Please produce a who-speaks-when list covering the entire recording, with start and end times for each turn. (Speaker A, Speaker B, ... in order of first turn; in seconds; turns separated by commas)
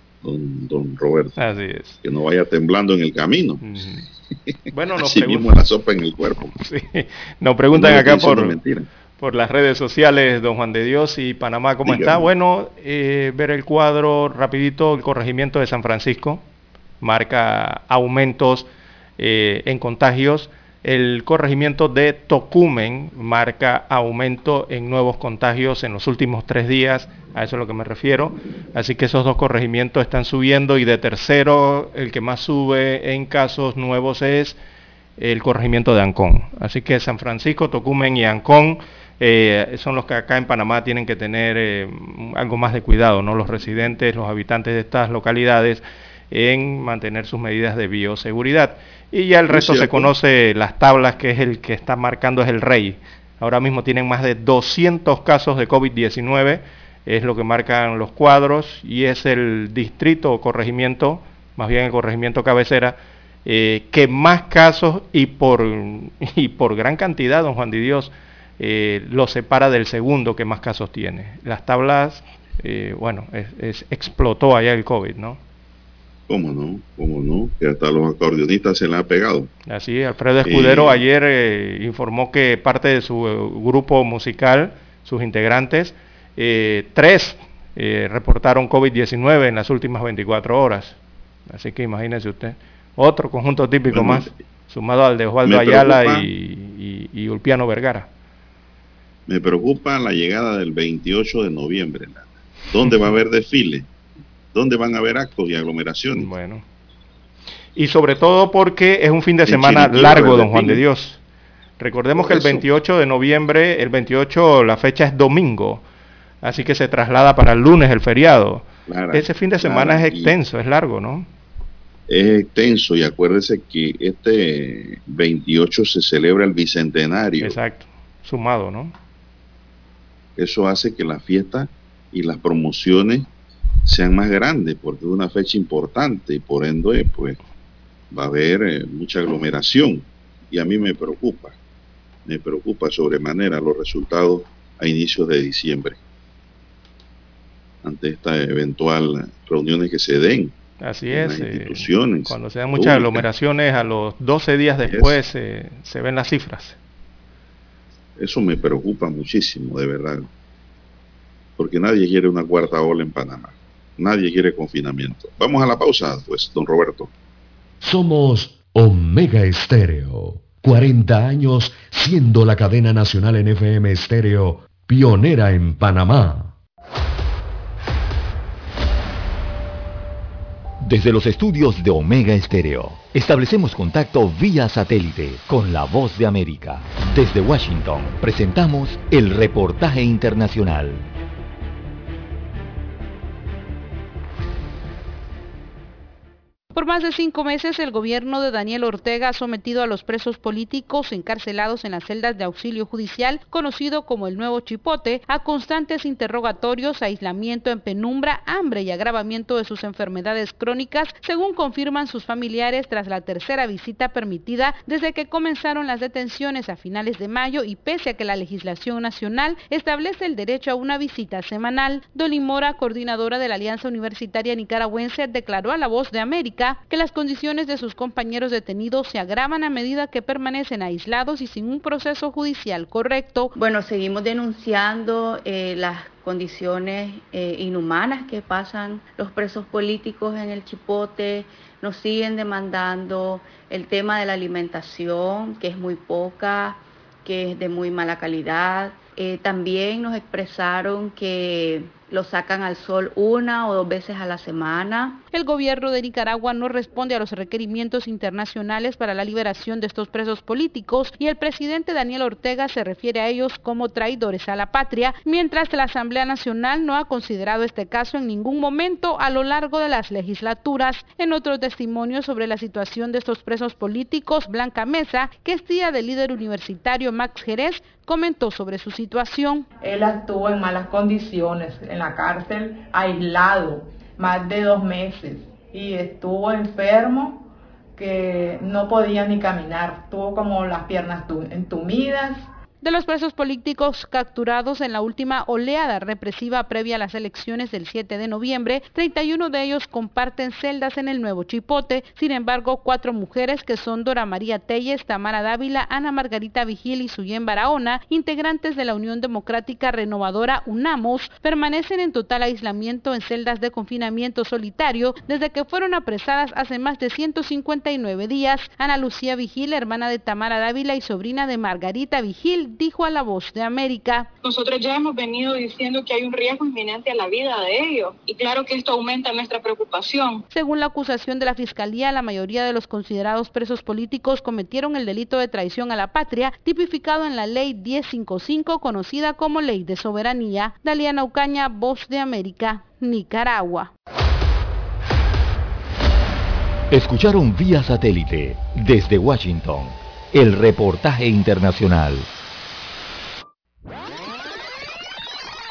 Speaker A: 0.2-1.3, Speaker B: 1.4-2.0, Speaker A: 2.0-3.6, Speaker B: 3.6-4.1, Speaker B: 4.7-5.5, Speaker A: 5.0-6.5, Speaker B: 6.5-8.6, Speaker A: 7.7-8.9, Speaker B: 9.2-16.4, Speaker A: 11.8-12.2, Speaker B: 17.0-34.6, Speaker B: 35.2-75.4, Speaker A: 49.5-50.1, Speaker A: 76.3-79.5, Speaker B: 79.7-98.1, Speaker A: 80.4-81.0, Speaker A: 93.9-94.3, Speaker A: 95.4-96.3, Speaker A: 99.3-103.9, Speaker B: 102.8-103.1, Speaker A: 104.5-106.3, Speaker B: 106.2-106.6, Speaker B: 107.8-111.2, Speaker A: 109.5-110.8, Speaker B: 111.8-115.8, Speaker A: 112.2-112.6, Speaker B: 116.4-121.3, Speaker A: 118.9-120.3, Speaker A: 122.1-127.5, Speaker B: 127.4-128.9, Speaker A: 130.3-133.3, Speaker A: 133.8-137.4, Speaker A: 138.1-141.6, Speaker A: 142.2-146.0, Speaker A: 147.8-150.5, Speaker B: 150.8-156.8, Speaker A: 151.1-153.2, Speaker A: 154.8-155.2, Speaker A: 158.2-160.3, Speaker A: 161.6-167.1, Speaker C: 167.8-176.5, Speaker D: 180.8-191.0, Speaker E: 196.7-233.5, Speaker F: 233.5-255.2, Speaker E: 255.3-279.7, Speaker G: 279.8-287.4, Speaker G: 287.9-292.5, Speaker E: 292.8-324.3, Speaker H: 324.4-330.4, Speaker E: 330.5-343.9, Speaker D: 346.9-352.3